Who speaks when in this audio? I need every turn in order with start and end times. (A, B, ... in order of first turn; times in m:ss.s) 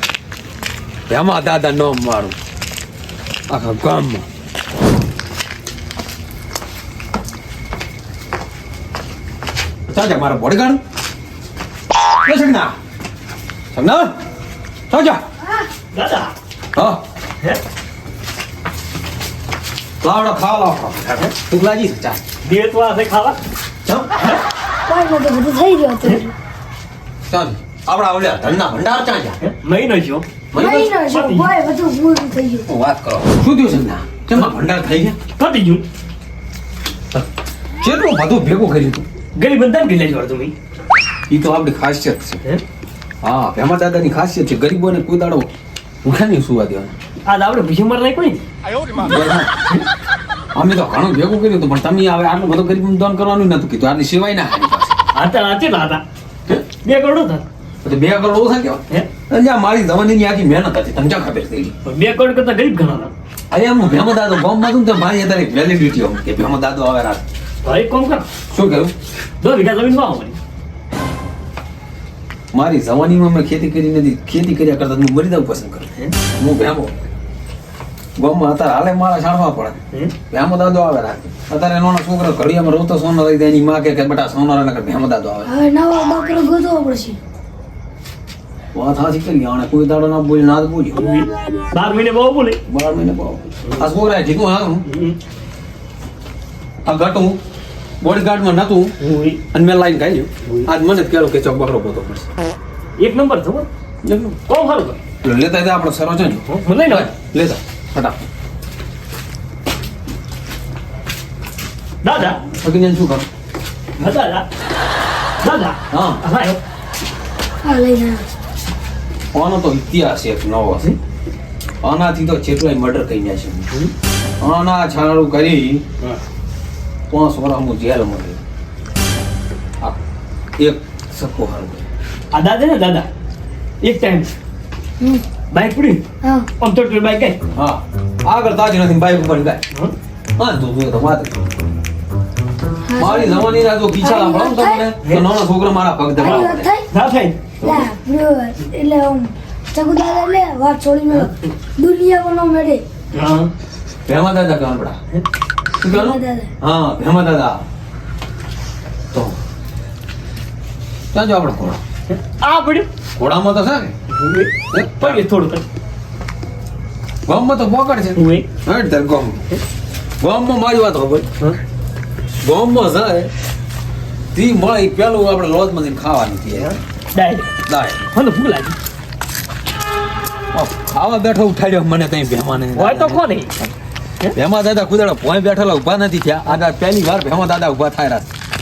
0:01.1-0:02.4 A
0:03.5-0:04.2 A
0:09.9-0:10.8 A
0:12.2-0:12.7 A
0:13.7-0:14.1 A
0:14.9-0:15.2 A
0:15.9-0:16.3 B
0:16.7-0:17.0 A
0:20.0-0:22.2 A
0:22.4-0:23.4 B
0:23.8-0:24.1 A
0:24.9-0:26.3 C
0:27.3-0:29.4 A
0:29.4-0:30.4 B
0:30.5-0:31.0 A
0:30.5-0:32.6 C
0:31.1-0:31.5 B
0:32.7-0:35.2 A
0:35.4-0:35.8 B
0:37.8-0:39.1 A
0:39.3-0:40.5 B
0:41.3-0:42.4 A
0:43.2-0:45.5 A
0:46.0-0:46.9 A
0:47.2-0:48.4 B
0:49.0-0:49.5 A
0:50.5-0:55.0 A
0:55.1-0:56.0 B
0:56.8-0:57.5 B
0:57.8-1:01.7 A
1:01.8-1:03.1 B
1:03.5-1:07.2 A
1:07.6-1:08.2 B
1:08.5-1:08.9 A
1:09.4-1:10.4 B
1:12.5-1:17.0 A
1:18.2-1:19.8 A
1:20.3-1:25.5 A
1:25.5-1:27.2 C
1:28.7-1:31.1 A
1:31.0-1:32.6 B
1:32.7-1:34.8 A
1:34.9-1:35.2 B
1:36.8-1:37.4 A
1:38.0-1:38.9 A
1:39.0-1:39.4 B
1:39.5-1:42.3 A
1:43.0-1:43.7 B
1:44.0-1:44.4 A
1:44.4-1:45.0 B
1:45.2-1:48.2 A
1:46.5-1:47.1 B
1:52.0-1:52.4 B
1:52.5-1:53.3 A
1:54.0-1:54.4 B
1:55.4-1:56.6 B
1:55.9-1:56.2 A
1:57.6-1:58.2 C
1:59.3-2:00.9 A
2:01.8-2:03.7 A
2:04.4-2:05.8 A
2:07.1-2:08.4 A
2:10.6-2:11.8 A
2:12.3-2:13.1 B
2:13.8-2:14.3 B
2:15.5-2:16.0 B
2:16.2-2:16.5 C
2:16.6-2:17.4 B
2:17.5-2:19.6 A
2:20.4-2:21.6 A
2:22.9-2:24.9 C
2:23.0-2:26.7 A
2:26.2-2:26.9 C
2:26.2-2:27.5 B
2:27.6-2:27.9 A
2:27.6-2:32.8 C
2:33.1-2:33.5 B
2:34.0-2:35.0 A
2:35.8-2:37.6 A
2:35.9-2:36.5 C
2:41.1-2:41.8 A
2:42.1-2:42.9 B
2:43.2-2:43.9 A
2:44.1-2:45.6 B
2:44.7-2:45.2 A
2:47.2-2:49.4 A
2:48.1-2:48.5 B
2:50.2-2:51.2 A
2:52.4-2:53.3 A
2:54.3-2:56.7 A
2:56.6-2:57.5 B
2:57.6-2:58.0 A
2:58.1-2:58.8 B
3:00.5-3:03.7 A
3:02.7-3:03.5 B
3:04.3-3:08.3 A